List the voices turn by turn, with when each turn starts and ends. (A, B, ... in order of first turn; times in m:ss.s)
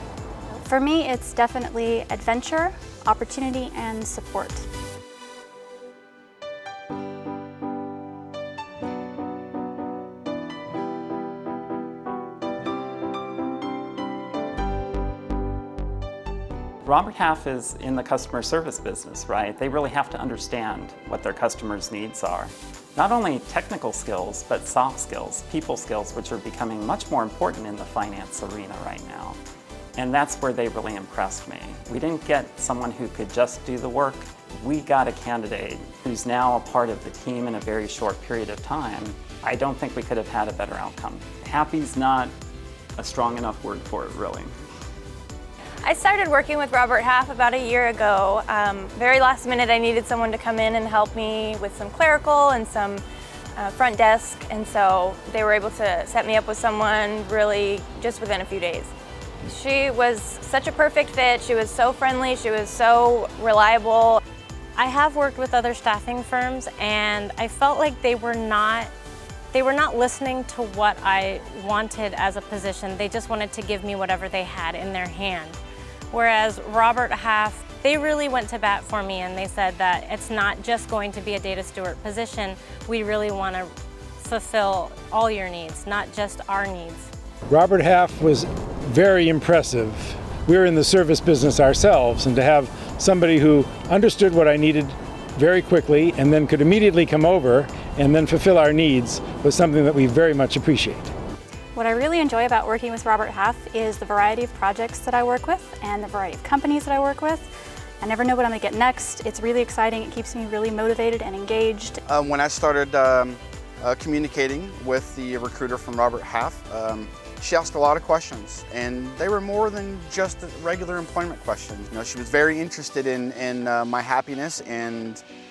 0:00.5-0:04.6 A
0:16.8-0:29.4 B
0:30.0-0:42.3 B
0:43.0-0:44.5 B
0:45.8-0:53.0 C
0:53.6-0:58.9 C
0:59.4-1:04.2 C
1:04.8-1:08.9 D
1:09.5-1:15.6 D
1:16.1-1:27.1 D
1:27.5-1:41.1 E
1:41.7-1:47.5 A
1:48.0-1:52.0 A
1:52.1-2:05.2 F